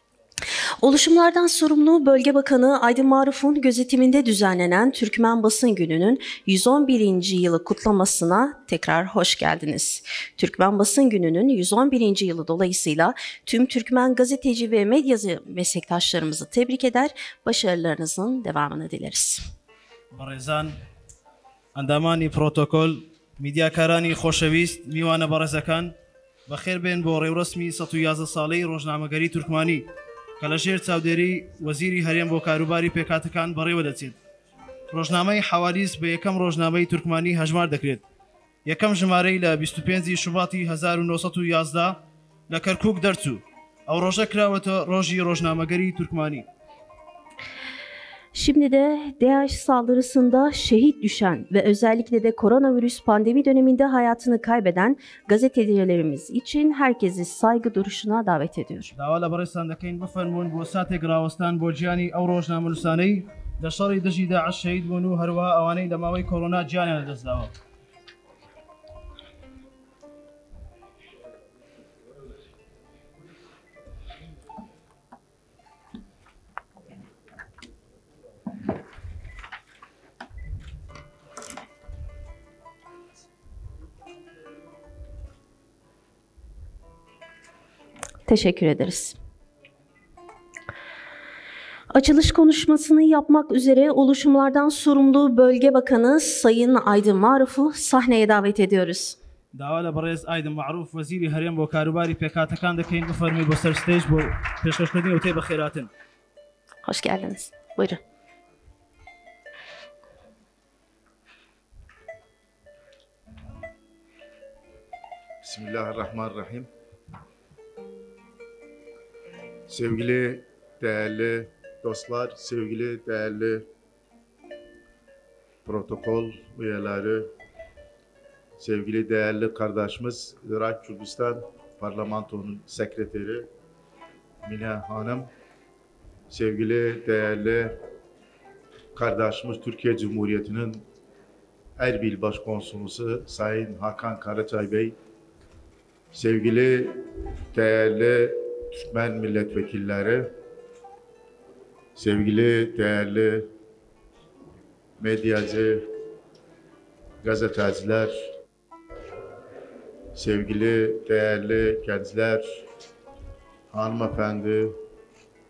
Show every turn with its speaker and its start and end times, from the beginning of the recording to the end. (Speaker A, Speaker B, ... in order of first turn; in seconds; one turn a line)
Speaker A: 0.8-19.4
Speaker B: 20.1-20.8
Speaker B: 21.7-25.9
Speaker B: 26.5-29.9
Speaker B: 30.4-34.2
Speaker B: 34.9-38.0
Speaker B: 38.6-46.5
Speaker A: 48.3-58.9
Speaker B: 58.9-67.5
Speaker A: 88.3-89.2
Speaker A: 91.9-99.2
Speaker B: 99.5-105.9
Speaker A: 106.8-108.0
Speaker C: 115.4-116.7
Speaker C: 119.7-123.7
Speaker C: 125.6-127.3
Speaker C: 128.6-133.5
Speaker C: 134.4-135.3
Speaker C: 136.3-137.8
Speaker C: 138.9-140.8
Speaker C: 141.8-144.9
Speaker C: 146.1-150.3
Speaker C: 151.9-153.5
Speaker C: 155.0-155.9
Speaker C: 157.2-158.1
Speaker C: 160.1-162.6
Speaker C: 163.7-164.8